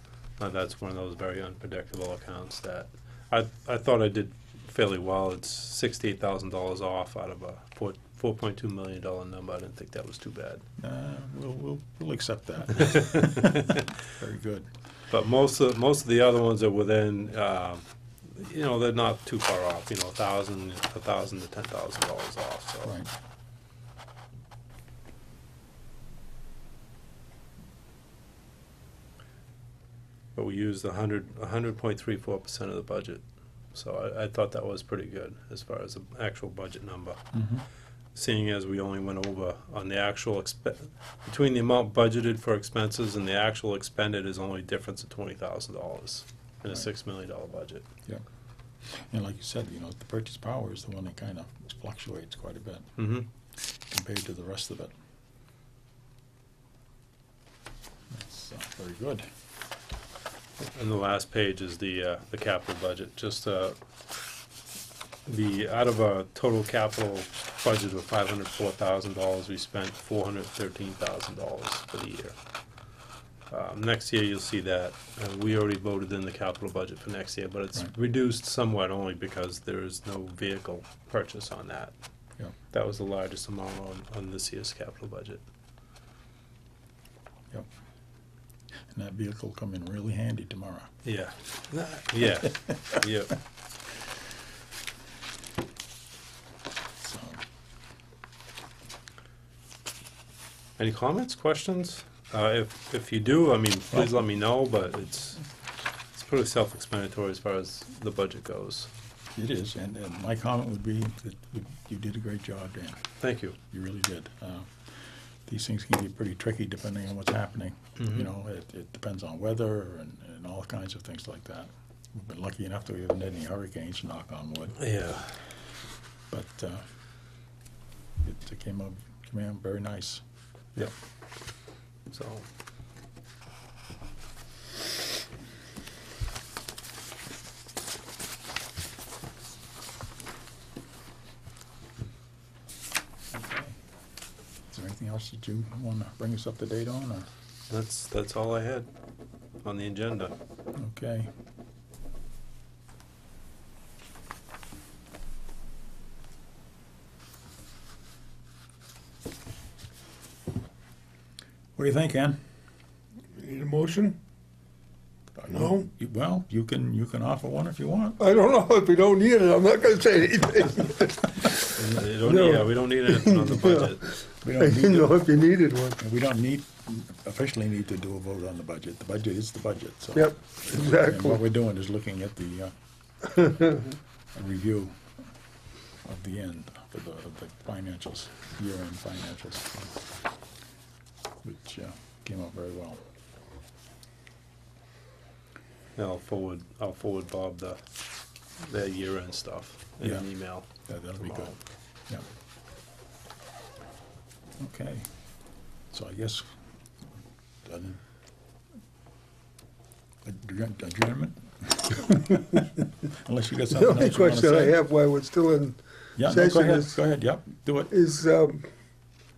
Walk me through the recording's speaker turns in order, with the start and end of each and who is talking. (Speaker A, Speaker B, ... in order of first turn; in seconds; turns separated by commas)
Speaker A: 0.4-10.6, Speaker B: 10.8-14.7, Speaker A: 12.8-13.8, Speaker A: 15.1-22.9, Speaker B: 22.8-23.1, Speaker A: 30.3-37.3, Speaker B: 37.3-37.6, Speaker A: 38.1-47.8, Speaker B: 48.8-53.0, Speaker A: 53.0-53.3, Speaker B: 53.8-54.9, Speaker B: 58.1-59.3, Speaker A: 60.6-63.8, Speaker A: 65.2-72.4, Speaker A: 73.5-81.9, Speaker A: 82.6-85.4, Speaker B: 88.9-90.9, Speaker A: 91.0-93.3, Speaker B: 97.0-97.4, Speaker A: 100.8-105.4, Speaker A: 106.1-108.9, Speaker B: 109.3-113.0, Speaker A: 113.2-113.5, Speaker B: 113.7-124.9, Speaker A: 118.0-118.3, Speaker A: 124.8-125.4, Speaker B: 126.3-126.9, Speaker B: 128.2-130.9, Speaker A: 132.1-132.5, Speaker B: 143.3-143.8, Speaker B: 144.7-147.3, Speaker A: 147.7-148.9, Speaker A: 149.6-150.3, Speaker B: 150.7-151.3, Speaker B: 161.8-162.4, Speaker C: 163.4-164.2, Speaker B: 165.3-168.2, Speaker C: 165.5-165.9, Speaker C: 168.2-176.0, Speaker A: 171.8-174.0, Speaker B: 174.4-175.2, Speaker B: 176.0-182.7, Speaker C: 180.1-181.4, Speaker C: 183.3-183.8, Speaker B: 184.3-185.0, Speaker B: 186.0-189.9, Speaker B: 191.4-193.0, Speaker A: 195.9-197.9, Speaker A: 198.6-201.6, Speaker B: 200.0-202.2, Speaker B: 204.6-205.1, Speaker B: 205.9-206.6, Speaker B: 207.6-208.0, Speaker B: 210.2-214.8, Speaker C: 213.7-217.0, Speaker B: 216.2-217.9, Speaker C: 217.9-218.7